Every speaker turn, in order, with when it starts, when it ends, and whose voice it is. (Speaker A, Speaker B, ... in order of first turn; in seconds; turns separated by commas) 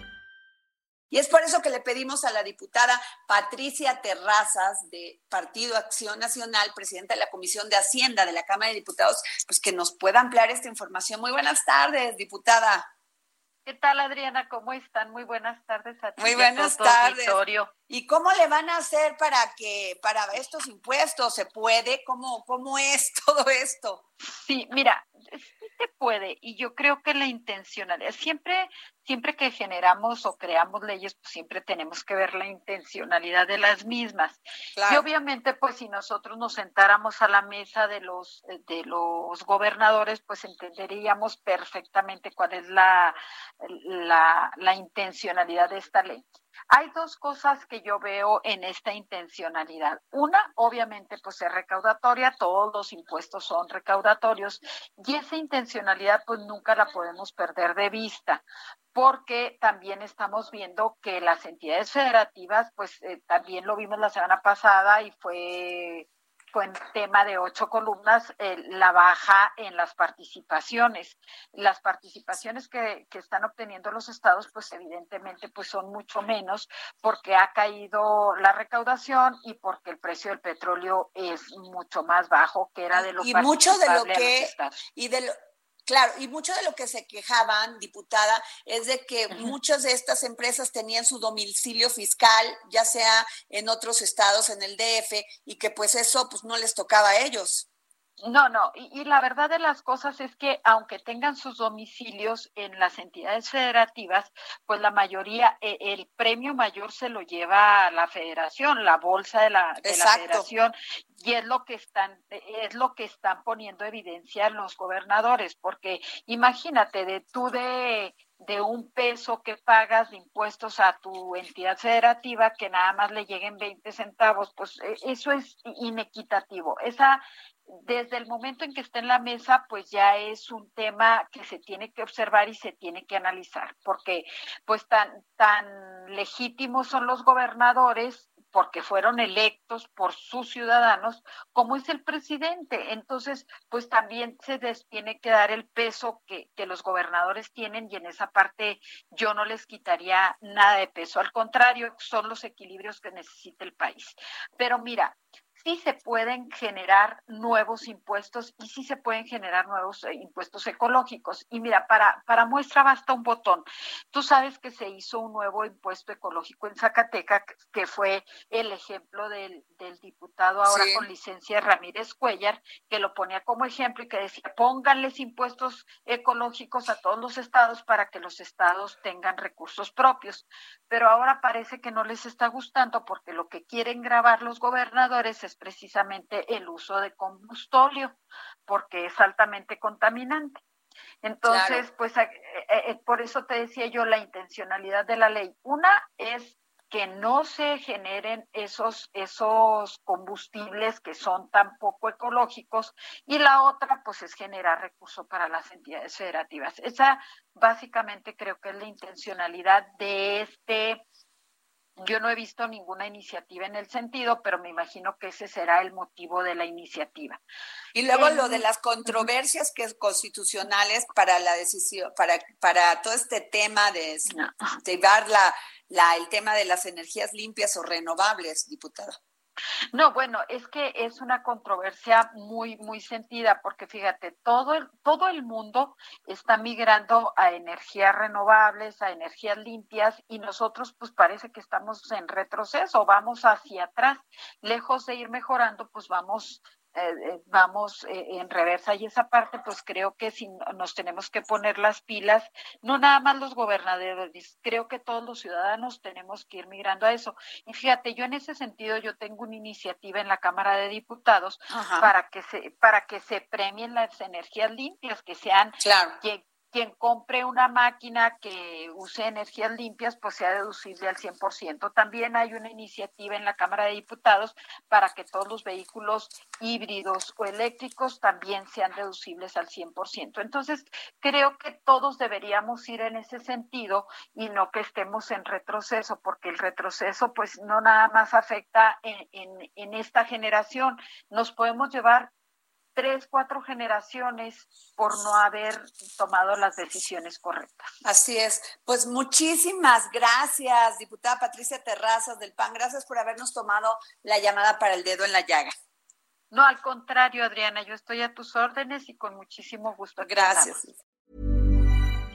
Speaker A: 1.1-12.9, Speaker B: 13.6-17.7, Speaker A: 16.2-17.4, Speaker A: 17.9-24.0, Speaker B: 24.3-58.4, Speaker A: 34.8-35.0, Speaker B: 58.9-84.8, Speaker A: 82.9-85.3, Speaker A: 85.8-97.7, Speaker B: 98.2-190.6, Speaker A: 109.8-110.5, Speaker A: 170.6-171.0, Speaker B: 191.2-211.0, Speaker A: 191.4-191.8, Speaker B: 212.0-217.4, Speaker A: 217.9-224.3, Speaker B: 218.1-219.3, Speaker B: 224.3-224.8, Speaker A: 224.8-229.2, Speaker B: 229.9-292.3, Speaker A: 261.7-262.1, Speaker A: 265.8-266.1, Speaker B: 292.9-297.9, Speaker A: 298.0-305.7, Speaker B: 306.5-310.8, Speaker A: 310.2-310.9